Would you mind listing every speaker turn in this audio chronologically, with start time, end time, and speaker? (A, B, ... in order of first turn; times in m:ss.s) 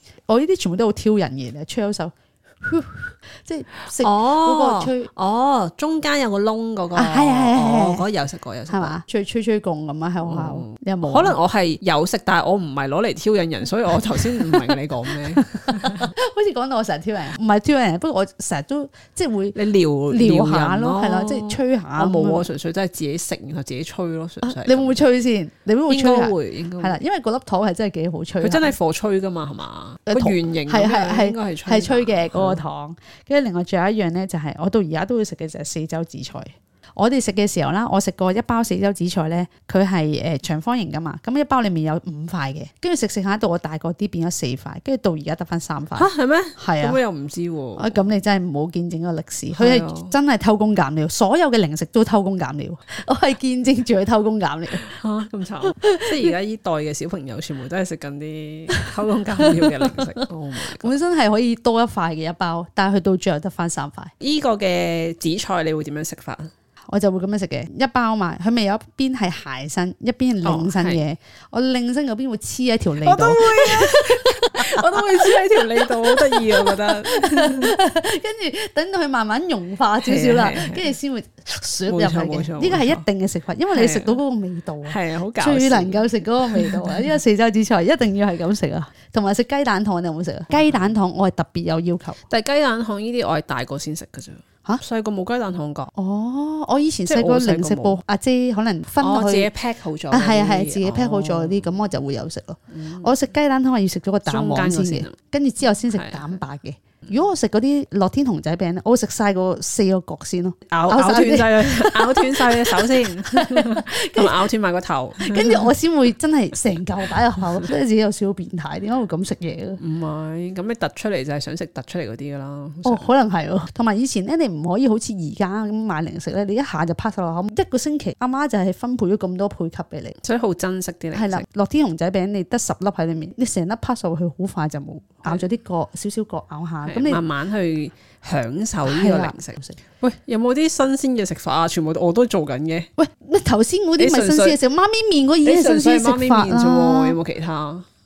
0:00.3-0:05.1 A
0:04.0-0:09.0 B
0:07.0-0:08.1 A
0:08.7-0:11.4 A
0:10.2-0:16.1 B
0:14.1-0:14.7 A
0:15.3-0:19.6 A
0:19.6-0:25.1 B
0:20.1-0:22.5 A
0:24.4-0:28.8 A
0:25.9-0:27.0 B
0:28.4-0:32.6 B
0:30.1-0:47.0 A
0:46.0-0:48.1 B
0:47.8-0:54.8 A
0:49.5-0:50.1 B
0:54.8-1:01.0 B
0:55.6-0:56.4 A
0:59.8-1:00.1 A
1:00.7-1:04.1 A
1:04.2-1:06.5 B
1:06.9-1:32.2 A
1:10.4-1:11.0 B
1:13.0-1:17.7 B
1:20.0-1:20.9 B
1:21.9-1:23.0 B
1:23.7-1:24.2 B
1:24.9-1:27.1 B
1:30.5-1:30.9 B
1:32.3-1:35.9 B
1:36.0-1:39.5 A
1:37.1-1:38.0 B
1:39.0-1:41.8 B
1:40.1-1:54.5 A
1:42.7-1:43.1 B
1:44.3-1:45.2 B
1:45.9-1:46.4 B
1:50.7-1:55.7 B
1:55.2-1:59.8 A
1:57.4-1:57.6 B
1:59.8-2:03.1 B
2:02.8-2:10.2 A
2:10.2-2:11.4 B
2:11.1-2:17.2 A
2:16.8-2:22.9 B
2:18.8-2:19.8 A
2:23.0-2:27.2 A
2:24.0-2:24.6 B
2:25.4-2:27.9 B